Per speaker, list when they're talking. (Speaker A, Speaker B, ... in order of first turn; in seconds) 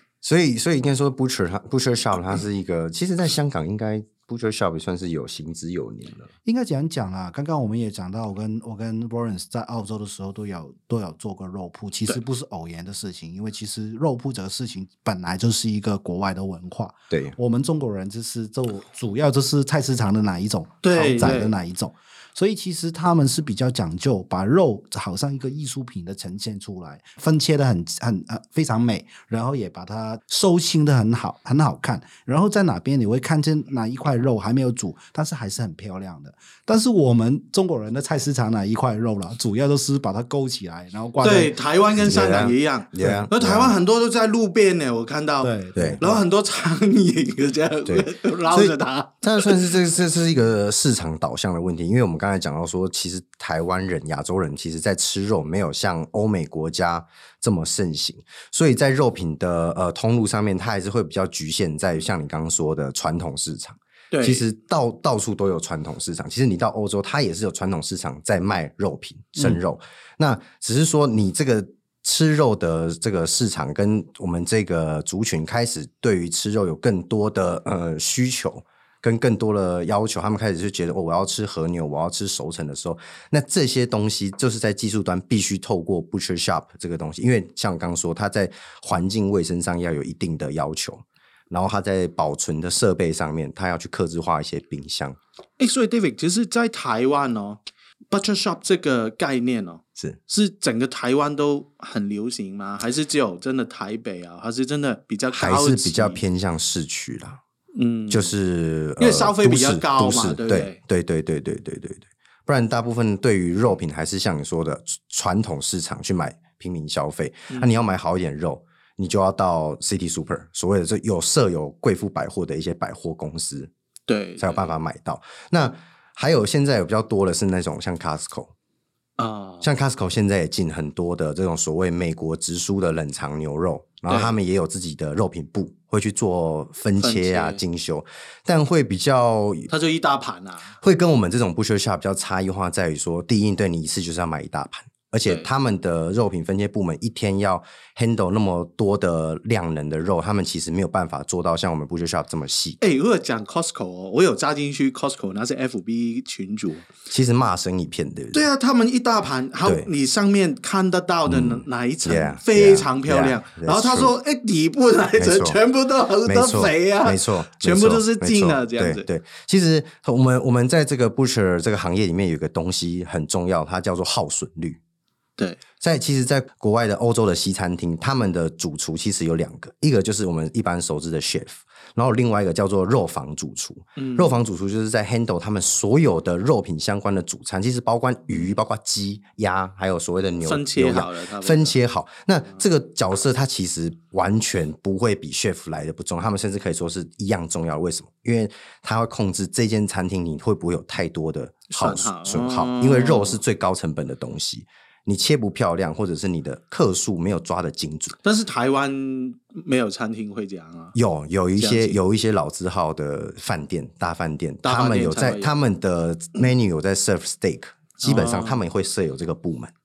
Speaker A: 0.2-6.3, 17.1-17.4, 42.0-43.8, 45.8-46.0, 47.9-95.2, 105.3-107.4, 108.1-123.7, 124.4-128.5, 129.6-139.7, 140.8-152.8, 157.1-158.4, 159.6-159.9, 161.3-164.1, 165.2-165.6, 166.2-174.8, 175.8-208.2, 210.9-219.7
Speaker B: 6.5-41.5, 43.0-43.3, 45.4-46.2
Speaker C: 20.8-21.5, 41.2-49.6, 64.1-64.5, 95.6-97.6, 98.1-106.2, 107.7-108.3, 109.0-110.8, 124.1-124.7, 129.2-129.7, 134.1-134.3, 137.0-137.6, 139.7-140.8, 152.8-156.9, 158.3-169.1, 183.9-184.4, 190.4-191.8, 201.7-203.4, 208.2-210.9, 211.6-212.0, 214.6-215.5, 218.0-218.6